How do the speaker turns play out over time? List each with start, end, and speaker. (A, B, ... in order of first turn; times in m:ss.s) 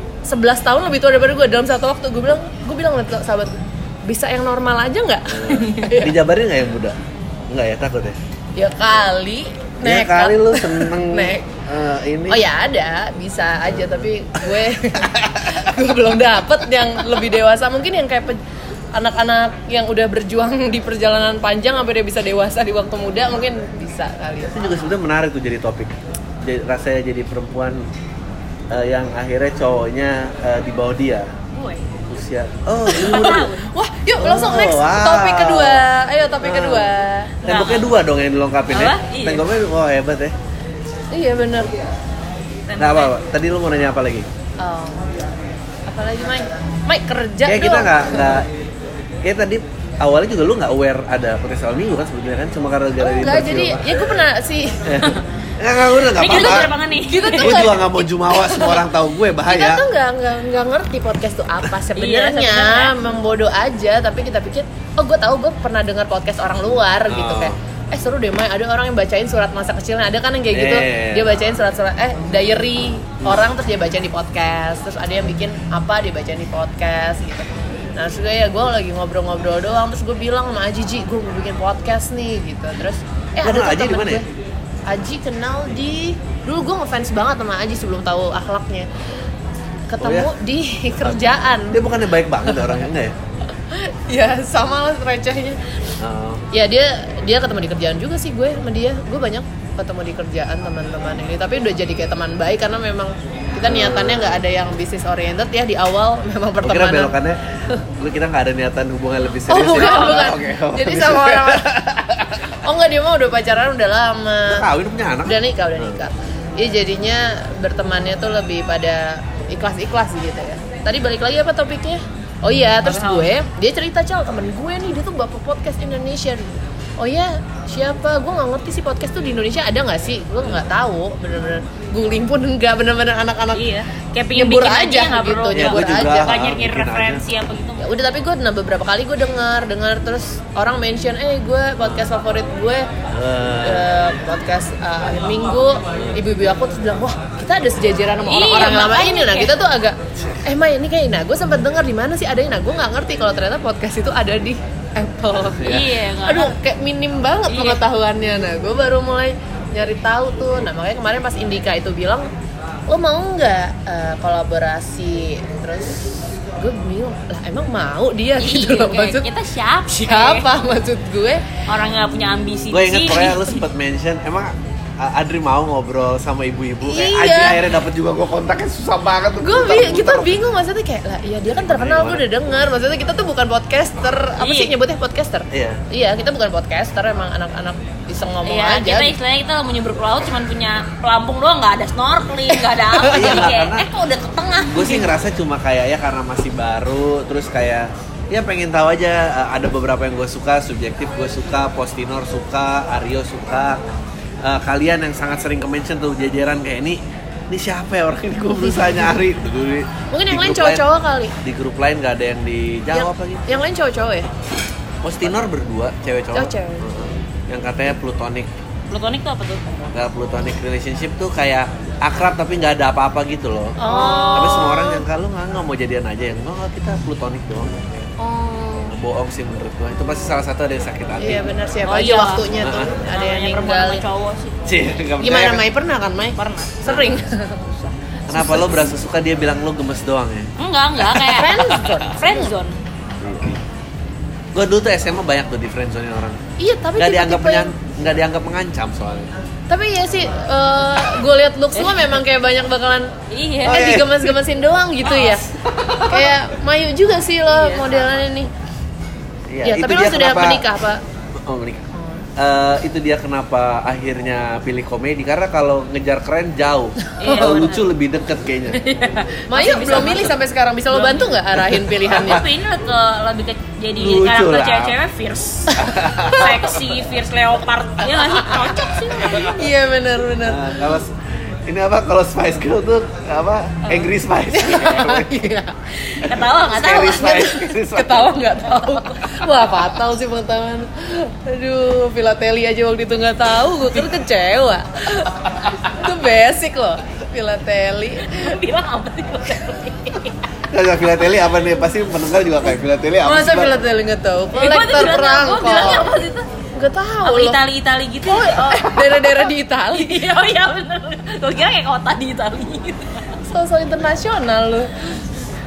0:00.2-0:03.5 A
0:04.0-0:06.2 A
0:05.3-0:07.0 B
0:07.5-0:08.2 B
0:08.6-0:11.5 A
0:09.8-0:12.4 B
0:12.3-0:18.4 A
0:15.2-0:15.6 B
0:19.0-0:24.6 A
0:24.5-0:27.8 B
0:28.7-0:31.3 B
0:31.5-0:31.9 C
0:32.1-0:33.5 B
0:32.9-0:33.7 C
0:33.0-0:37.4 A
0:34.2-0:35.9 B
0:36.4-0:36.9 B
0:37.4-0:37.9 C
0:37.4-0:40.4 B
0:38.7-0:39.4 C
0:41.1-0:41.7 A
0:42.7-0:43.1 C
0:42.8-0:44.3 B
0:44.6-0:45.2 A
0:45.9-0:48.4 A
0:47.5-0:48.5 B
0:49.2-0:54.2 B
0:53.0-0:55.1 A
0:54.8-0:56.7 B
0:56.0-0:57.8 C
0:56.4-0:58.9 A
0:57.3-0:59.8 B
0:59.5-1:24.3 A
1:01.9-1:03.0 C
1:07.1-1:07.6 B
1:10.5-1:11.3 B
1:23.4-1:24.2 B
1:24.9-1:28.9 A
1:29.9-1:31.8 A
1:30.0-1:30.3 B
1:31.0-1:33.2 B
1:32.5-1:32.8 A
1:33.7-1:35.8 A
1:36.0-1:36.4 B
1:36.5-1:47.2 A
1:43.6-1:44.4 B
1:46.6-1:52.5 B
1:49.5-1:51.8 A
1:49.7-1:50.3 C
1:52.6-1:54.7 A
1:54.5-1:56.0 B
1:55.2-2:13.7 A
2:02.8-2:03.3 C
2:13.5-2:17.9 C
2:14.3-2:16.4 A
2:15.5-2:17.2 B
2:17.8-2:22.8 A
2:21.8-2:22.1 B
2:23.1-2:24.0 B
2:23.6-2:42.3 A
2:26.0-2:26.2 B
2:28.2-2:29.6 C
2:30.2-2:30.4 B
2:35.6-2:36.6 C
2:37.5-2:37.8 C
2:42.9-2:49.3 A
2:48.4-2:50.5 C
2:49.9-2:51.4 A
2:51.7-2:53.6 C
2:52.7-3:00.4 B
2:56.8-2:57.6 A
2:59.4-3:09.2 A
3:01.6-3:02.3 B
3:04.4-3:04.8 C
3:05.5-3:05.8 B
3:08.4-3:15.2 C
3:13.0-3:13.5 A
3:13.0-3:13.9 B
3:14.6-3:23.8 B
3:24.4-3:30.8 B
3:30.1-3:31.4 A
3:31.4-3:33.5 B
3:32.9-3:34.3 A
3:35.0-3:38.5 B
3:36.3-3:36.9 A
3:38.9-3:39.8 C
3:39.9-3:43.8 B
3:43.8-3:45.0 A
3:43.8-3:44.9 C
3:44.3-3:48.1 B
3:48.2-3:49.0 A
3:48.9-3:51.5 B
3:51.2-3:54.0 A
3:51.9-3:54.7 C
3:52.6-3:52.9 B
3:54.6-3:55.6 B
3:55.2-3:58.8 A
3:56.4-3:56.8 C
3:56.8-3:57.2 B
3:58.3-4:02.0 B
4:00.6-4:02.8 C
4:01.2-4:02.5 A
4:03.2-4:03.6 B
4:04.5-4:06.4 B
4:06.6-4:07.9 A
4:07.0-4:09.3 B
4:09.7-4:13.1 A
4:11.8-4:12.1 C
4:13.3-4:14.0 C
4:13.6-4:15.5 A
4:13.7-4:14.3 B
4:15.1-4:15.4 C
4:15.7-4:16.4 B
4:16.1-4:18.5 A
4:17.5-4:18.0 C
4:19.5-4:20.6 B
4:19.6-4:21.0 A
4:21.4-4:28.8 B
4:22.0-4:22.3 A
4:27.1-4:27.6 A
4:27.2-4:27.9 C
4:28.7-4:30.4 C
4:29.5-4:32.4 A
4:30.9-4:39.7 C
4:32.1-4:32.4 B
4:34.0-4:35.0 B
4:35.7-4:36.0 A
4:35.8-4:36.7 B
4:38.2-4:38.5 A
4:39.5-4:40.9 A
4:40.4-4:45.4 B
4:44.5-4:45.8 A
4:46.0-4:47.5 C
4:46.2-4:48.3 B
4:46.8-4:58.6 A
4:58.2-5:00.3 C
5:00.7-5:03.8 B
5:03.2-5:06.2 A
5:04.5-5:06.5 C
5:06.8-5:07.6 A
5:07.2-5:13.4 C
5:08.2-5:10.3 A
5:13.5-5:15.2 A